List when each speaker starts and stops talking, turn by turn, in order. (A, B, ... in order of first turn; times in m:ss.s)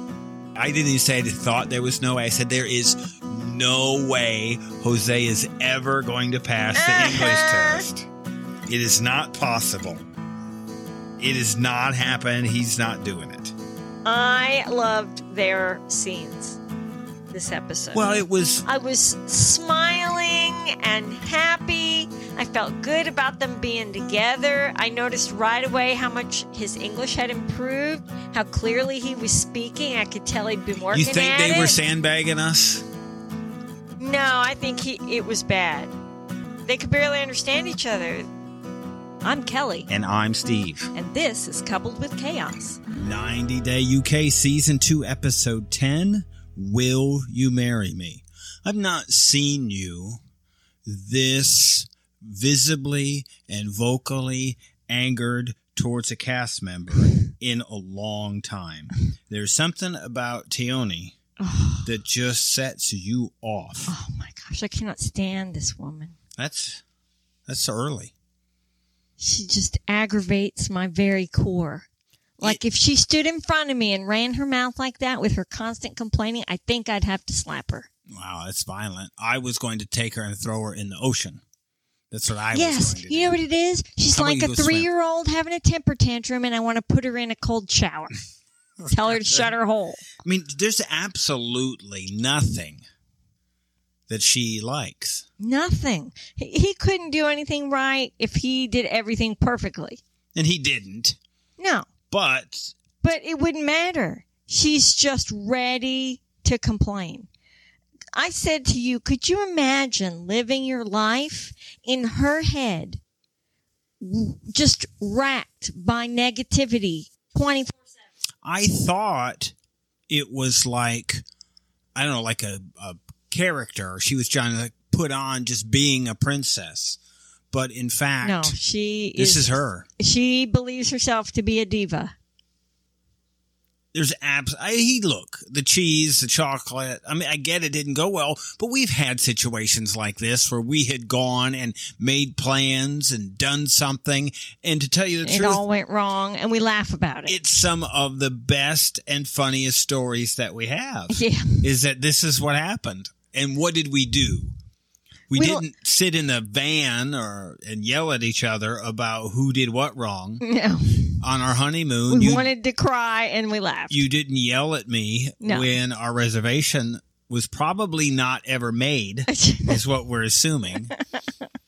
0:00.6-0:08.1 A
0:06.8-0:07.8 B
0:08.7-0:10.0 A
0:11.2-0:13.5 A
0:14.0-0:16.6 B
0:17.3-0:18.0 B
0:17.9-0:18.6 A
0:18.6-0:31.8 B
0:30.9-0:32.8 A
0:34.0-0:35.9 B
0:36.6-0:38.3 B
0:39.2-0:39.9 B
0:39.9-0:40.9 A
0:40.9-0:42.8 B
0:43.0-0:50.2 A
0:50.8-1:01.1 A
1:01.4-1:01.9 B
1:01.8-1:03.9 A
1:03.9-1:06.2 B
1:06.4-1:06.8 A
1:07.5-1:08.1 A
1:09.2-1:11.9 B
1:12.4-1:17.9 B
1:18.1-1:21.4 A
1:22.1-1:23.4 A
1:22.5-1:28.1 B
1:24.1-1:24.9 A
1:28.8-1:30.0 B
1:30.2-1:32.8 A
1:34.1-1:35.2 A
1:35.4-1:40.0 B
1:40.3-1:41.2 A
1:41.6-1:41.9 B
1:42.1-1:42.7 A
1:43.0-1:47.3 B
1:48.1-1:53.0 B
1:54.0-1:57.8 B
1:58.4-1:59.5 A
2:00.1-2:01.2 A
2:01.9-2:07.0 A
2:07.5-2:08.5 A
2:08.2-2:12.1 B
2:09.2-2:09.9 A
2:13.9-2:25.6 A
2:25.2-2:27.4 B
2:27.2-2:34.5 A
2:31.1-2:31.6 B
2:35.3-2:40.4 A
2:35.3-2:35.6 B
2:40.4-2:41.2 B
2:41.2-2:42.5 A
2:42.1-2:44.0 B
2:43.9-2:50.9 A
2:45.4-2:45.7 B
2:49.3-2:49.8 B